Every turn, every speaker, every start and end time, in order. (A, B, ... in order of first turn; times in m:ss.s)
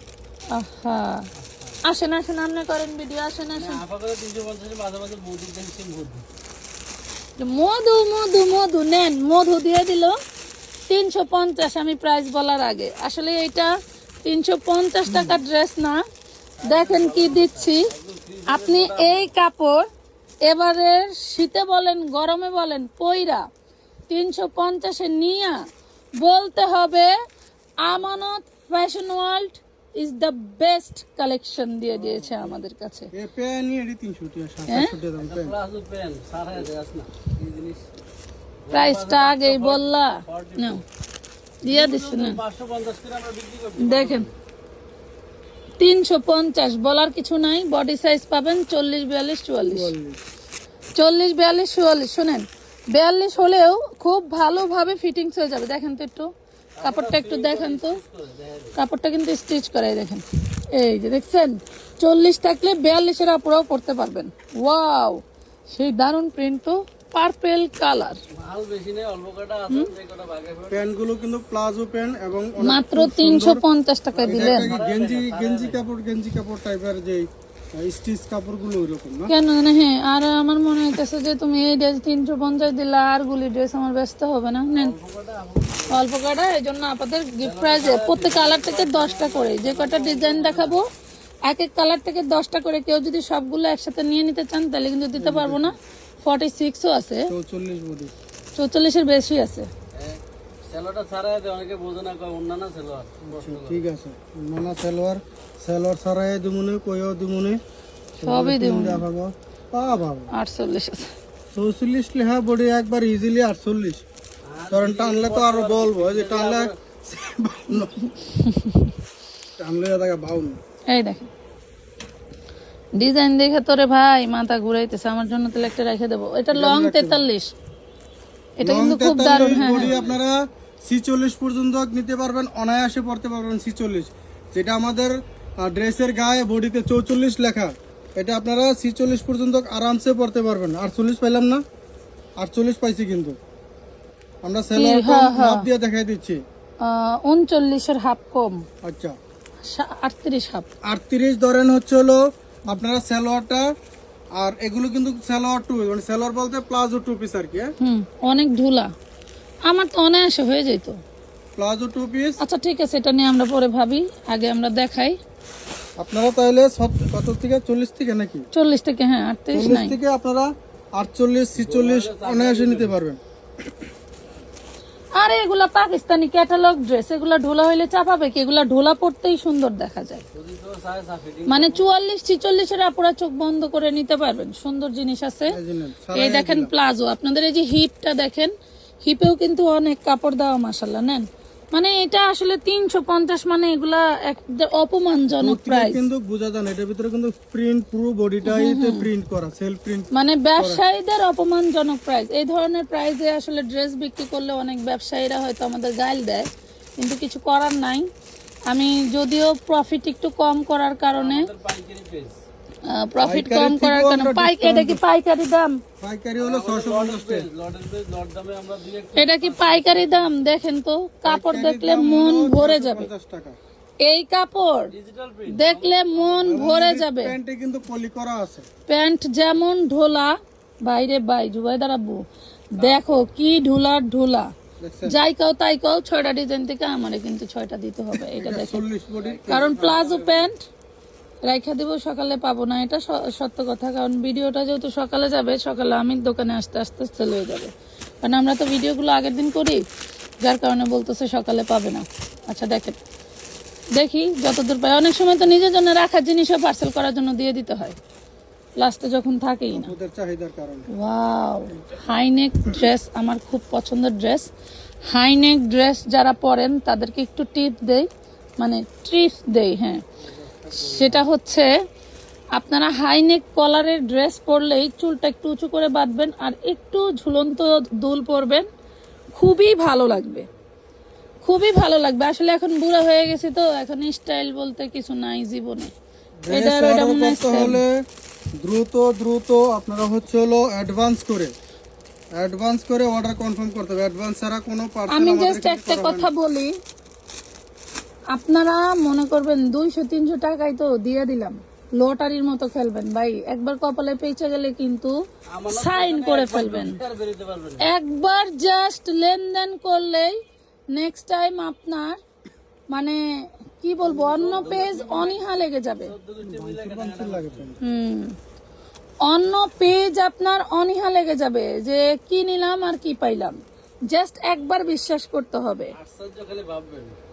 0:00.5-0:01.3 A
0:01.4-0:01.8 B
0:01.8-0:03.8 A
0:03.5-0:06.2 B
0:07.4-0:10.2 A
0:10.9-0:16.0 A
0:15.1-0:15.4 C
0:16.6-0:19.3 B
0:16.6-0:17.9 A
0:18.5-0:19.9 A
0:20.4-0:23.5 A
0:24.1-0:27.1 A
0:27.8-0:33.1 A
0:31.9-0:32.6 C
0:33.1-0:35.6 C
0:34.7-0:35.0 A
0:35.2-0:37.9 B
0:38.6-0:40.8 B
0:38.7-0:40.8 A
0:41.6-0:44.3 B
0:41.6-0:42.4 A
0:43.8-0:44.3 A
0:45.8-0:49.9 A
0:49.7-0:50.2 C
0:51.0-0:58.0 A
0:56.8-0:58.8 B
0:58.8-1:08.2 A
1:08.3-1:10.9 B
1:10.7-1:13.6 C
1:12.6-1:14.7 A
1:14.1-1:15.9 B
1:14.2-1:19.3 C
1:19.3-1:24.9 A
1:24.7-1:26.0 B
1:25.9-1:30.9 A
1:27.4-1:30.8 B
1:31.4-1:37.3 A
1:35.2-1:35.7 C
1:37.3-1:38.1 C
1:38.6-1:39.7 A
1:39.9-1:43.8 B
1:43.3-1:47.6 C
1:48.2-1:50.3 C
1:48.2-1:49.0 A
1:50.3-1:51.1 A
1:51.5-1:54.0 C
1:54.4-1:56.8 B
1:54.7-1:57.9 C
1:58.2-1:58.9 A
1:59.6-2:00.6 C
2:00.9-2:01.3 A
2:02.9-2:07.5 A
2:06.5-2:07.2 C
2:08.6-2:10.0 A
2:08.6-2:21.6 C
2:09.3-2:10.2 B
2:22.4-2:23.4 C
2:24.4-2:26.4 C
2:24.7-2:25.7 A
2:26.8-2:28.6 A
2:28.8-2:29.2 C
2:29.6-2:30.7 A
2:30.8-2:33.7 C
2:34.4-2:37.7 C
2:37.8-2:38.9 A
2:39.6-2:41.0 A
2:41.6-2:42.4 C
2:42.4-2:45.2 A
2:46.0-2:48.4 C
2:48.5-2:50.0 A
2:49.5-2:53.2 C
2:51.5-2:53.0 B
2:55.2-3:00.2 A
3:00.3-3:01.9 B
3:01.5-3:05.6 A
3:05.5-3:06.7 C
3:06.1-3:16.0 A
3:15.3-3:20.8 C
3:18.4-3:19.1 A
3:20.1-3:28.1 A
3:28.7-3:31.5 A
3:31.1-3:32.4 B
3:32.8-3:35.8 A
3:33.2-3:35.0 C
3:36.0-3:37.5 C
3:36.4-3:40.7 B
3:39.2-3:43.1 A
3:41.2-3:43.6 C
3:44.0-3:44.9 A
3:44.9-3:46.7 B
3:45.5-3:47.3 A
3:46.5-3:48.7 C
3:48.9-3:52.2 A
3:52.7-3:54.5 A
3:52.8-3:53.3 B
3:54.8-3:55.2 C
3:55.0-3:58.8 A
3:58.3-3:59.7 C
3:59.2-4:00.5 B
3:59.5-4:00.6 A
4:01.4-4:09.8 A
4:10.4-4:13.0 A
4:13.9-4:18.0 A
4:18.8-4:19.9 A
4:19.7-4:20.9 C
4:20.9-4:24.5 A
4:25.1-4:28.1 A
4:28.6-4:30.0 A
4:30.2-4:31.2 B
4:30.8-4:31.7 A
4:32.5-4:38.7 A
4:39.3-4:40.5 A
4:41.4-4:45.9 A
4:46.4-4:48.0 C
4:46.5-4:47.8 A
4:48.6-4:51.5 C
4:52.3-4:56.3 C
4:55.1-4:56.7 A
4:58.3-5:05.2 A
5:05.5-5:07.9 B
5:05.7-5:07.0 A
5:07.8-5:10.4 A
5:10.9-5:12.2 A
5:12.9-5:16.1 A
5:14.1-5:17.7 B
5:14.1-5:15.2 C
5:16.4-5:17.8 C
5:17.8-5:18.4 A
5:19.2-5:25.9 A
5:25.9-5:27.2 B